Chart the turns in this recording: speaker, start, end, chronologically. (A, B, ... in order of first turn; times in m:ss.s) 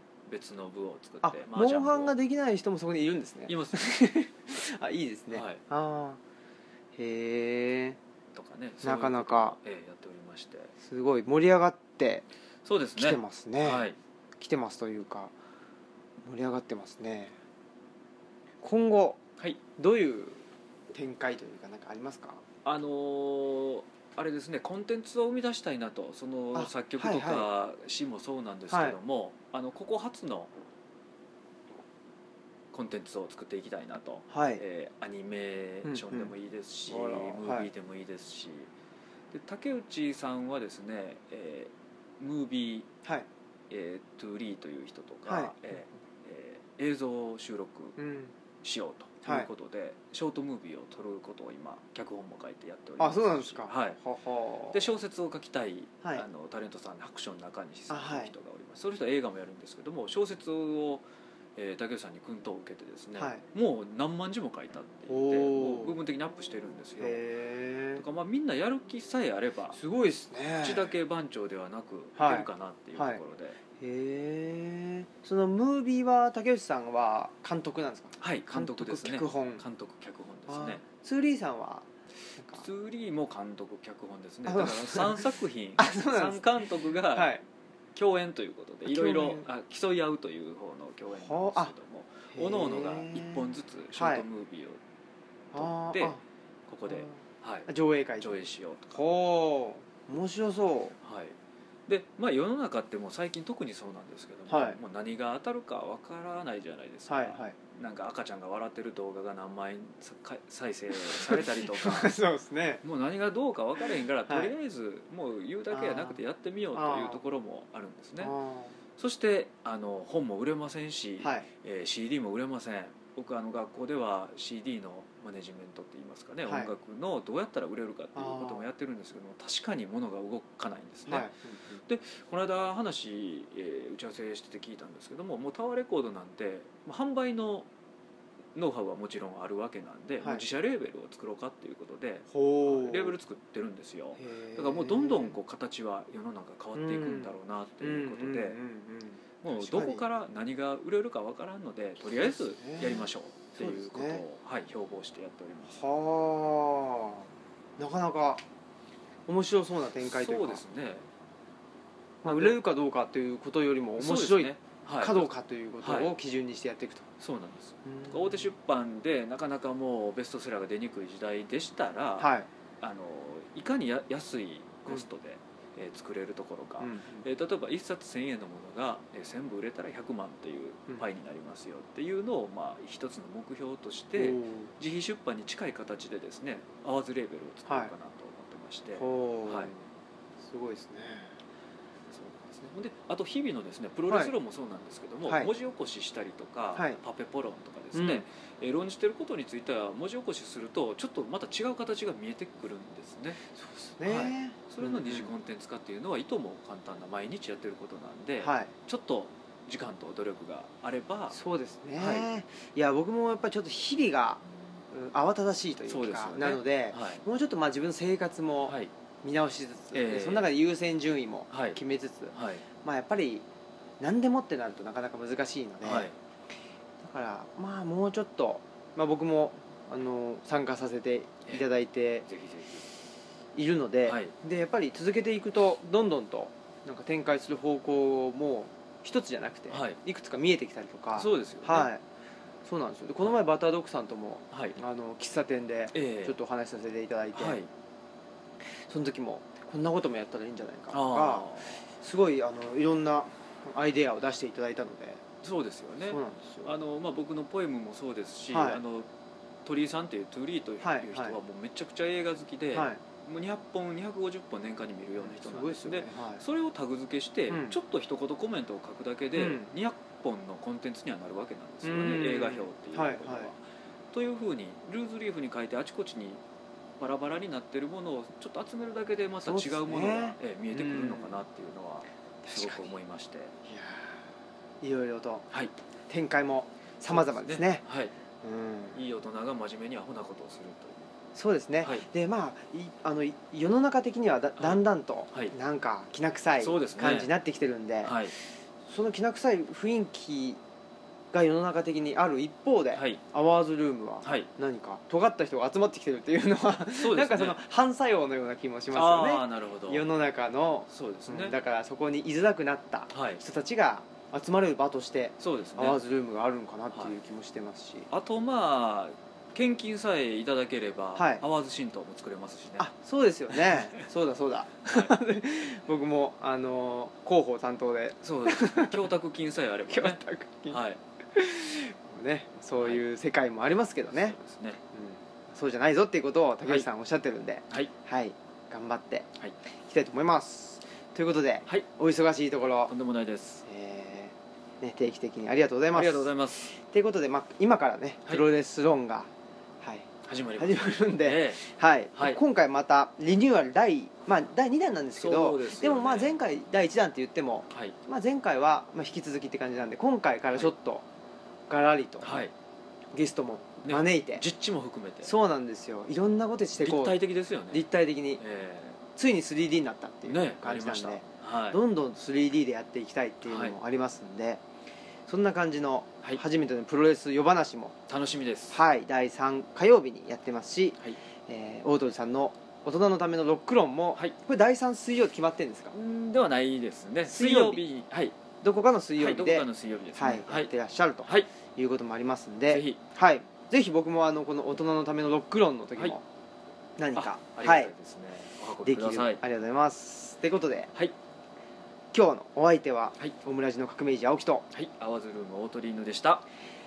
0:00.2-0:02.1 A
0:01.2-0:06.2 B
0:03.5-0:03.8 A
0:05.3-0:05.6 A
0:07.0-0:08.0 B
0:08.3-0:10.7 A
0:08.8-0:09.6 B
0:10.8-0:12.2 B
0:12.6-0:14.0 A
0:13.0-0:13.9 B
0:14.4-0:15.3 B
0:16.2-0:17.3 B
0:18.6-0:19.2 B
0:19.8-0:22.4 B
0:22.6-0:30.5 A
0:26.5-0:27.5 B
0:28.7-0:29.0 B
0:32.7-0:38.7 A
0:34.3-0:34.6 B
0:35.8-0:36.3 B
0:36.9-0:37.7 B
0:39.3-0:42.9 A
0:43.7-0:48.0 A
0:45.2-0:45.5 B
0:48.0-0:48.3 B
0:48.6-0:54.0 A
0:49.2-0:49.5 B
0:53.0-0:54.9 B
0:54.7-1:07.2 A
0:57.9-0:58.3 B
1:03.2-1:03.4 B
1:05.1-1:06.0 B
1:07.0-1:08.0 B
1:08.0-1:09.8 A
1:09.7-1:11.0 B
1:10.6-1:13.6 A
1:12.2-1:13.2 B
1:13.8-1:19.6 B
1:18.2-1:20.8 A
1:20.5-1:22.6 B
1:22.6-1:27.3 A
1:24.4-1:27.4 B
1:27.9-1:34.8 A
1:28.8-1:29.4 B
1:31.2-1:31.7 B
1:32.3-1:34.2 B
1:35.5-1:36.2 B
1:35.5-1:37.7 A
1:36.8-1:41.0 B
1:38.2-1:39.0 A
1:41.0-1:52.2 A
1:44.5-1:44.8 B
1:47.1-1:47.6 B
1:51.0-1:52.8 B
1:52.8-1:58.3 A
1:54.2-1:54.5 B
1:55.7-1:56.2 B
1:56.7-1:57.2 B
1:58.2-1:58.8 B
1:59.0-2:11.3 A
2:01.2-2:01.5 B
2:06.4-2:06.7 B
2:08.1-2:08.7 B
2:11.1-2:11.8 B
2:11.8-2:17.7 A
2:18.5-2:28.6 A
2:22.3-2:23.2 B
2:24.2-2:25.4 B
2:26.7-2:30.0 B
2:29.4-2:35.8 A
2:32.1-2:34.2 B
2:35.7-2:37.2 B
2:37.8-2:38.4 B
2:39.3-2:40.6 B
2:40.0-2:41.1 A
2:42.2-2:47.1 B
2:42.2-2:42.6 A
2:44.0-2:45.3 A
2:45.8-2:46.1 A
2:47.2-3:09.7 A
2:47.8-2:48.5 B
2:52.2-2:52.5 B
2:56.8-2:57.2 B
3:04.2-3:04.7 B
3:09.0-3:09.8 B
3:10.4-3:11.4 B
3:12.1-3:23.4 A
3:17.9-3:18.2 B
3:23.6-3:25.3 B
3:24.0-3:31.4 A
3:28.4-3:28.7 B
3:31.3-3:43.4 B
3:32.0-3:32.3 A
3:35.9-3:37.2 A
3:38.6-3:38.9 A
3:39.9-3:40.5 A
3:41.5-3:41.8 A
3:42.3-3:42.6 A
3:44.0-3:46.1 B
3:45.8-3:46.2 A
3:47.0-3:52.2 B
3:52.2-3:53.0 A
3:53.6-4:02.0 B
3:54.0-3:54.3 A
3:59.7-4:00.0 A
4:01.2-4:01.9 A
4:02.6-4:07.6 B
4:04.5-4:04.8 A
4:05.9-4:06.4 A
4:07.3-4:07.7 A
4:08.9-4:15.2 B
4:10.9-4:11.8 A
4:15.4-4:19.1 A
4:16.0-4:16.7 B
4:18.5-4:18.8 B
4:19.6-4:33.6 A
4:20.8-4:21.4 B
4:22.7-4:23.0 B
4:25.2-4:26.4 B
4:27.5-4:27.8 B
4:29.4-4:29.7 B
4:31.8-4:33.5 B
4:34.1-4:36.4 A
4:37.0-4:43.5 A
4:39.4-4:41.4 B
4:42.4-4:42.9 B
4:43.6-4:44.2 B
4:44.8-4:45.5 B
4:46.1-4:47.8 B
4:47.0-4:48.1 A
4:48.4-4:49.0 B
4:48.9-4:51.1 A
4:51.3-4:58.3 B
4:54.6-4:55.5 A
4:56.6-4:57.3 A
4:58.0-4:58.3 A
4:58.9-5:00.6 B
5:01.3-5:18.1 B
5:02.9-5:03.2 A
5:04.2-5:04.5 A
5:06.9-5:07.6 A
5:08.9-5:10.1 A
5:10.9-5:11.5 A
5:13.1-5:13.4 A
5:15.4-5:16.0 A
5:18.1-5:22.9 A
5:21.2-5:21.4 B
5:22.8-5:29.1 B
5:23.5-5:23.9 A
5:24.8-5:25.1 A
5:28.2-5:31.0 A
5:29.9-5:30.8 B
5:31.3-5:34.4 B
5:32.8-5:33.0 A
5:34.1-5:34.8 A
5:34.9-5:39.3 B
5:39.8-5:42.9 B
5:42.9-5:43.6 A
5:43.6-5:49.3 B
5:45.9-5:46.7 A
5:49.8-6:01.0 B
5:50.2-5:51.6 A
5:55.1-5:56.4 A
5:57.7-5:58.0 A
6:01.7-6:02.4 B
6:02.2-6:02.5 A
6:03.1-6:04.4 B
6:03.8-6:05.3 A
6:05.2-6:07.2 B
6:06.8-6:07.8 A
6:07.7-6:08.4 B
6:08.4-6:09.0 A
6:09.2-6:14.6 B
6:10.3-6:11.8 A
6:13.4-6:13.8 A
6:15.3-6:18.0 B
6:18.1-6:18.8 A
6:18.7-6:25.9 B
6:25.9-6:28.4 A
6:27.3-6:27.8 B
6:28.6-6:36.2 B
6:29.2-6:30.7 A
6:31.2-6:31.5 A
6:32.7-6:33.0 A
6:37.0-6:37.9 B
6:37.1-6:39.4 A
6:38.8-6:40.9 B
6:42.1-6:44.7 B
6:44.7-6:46.5 A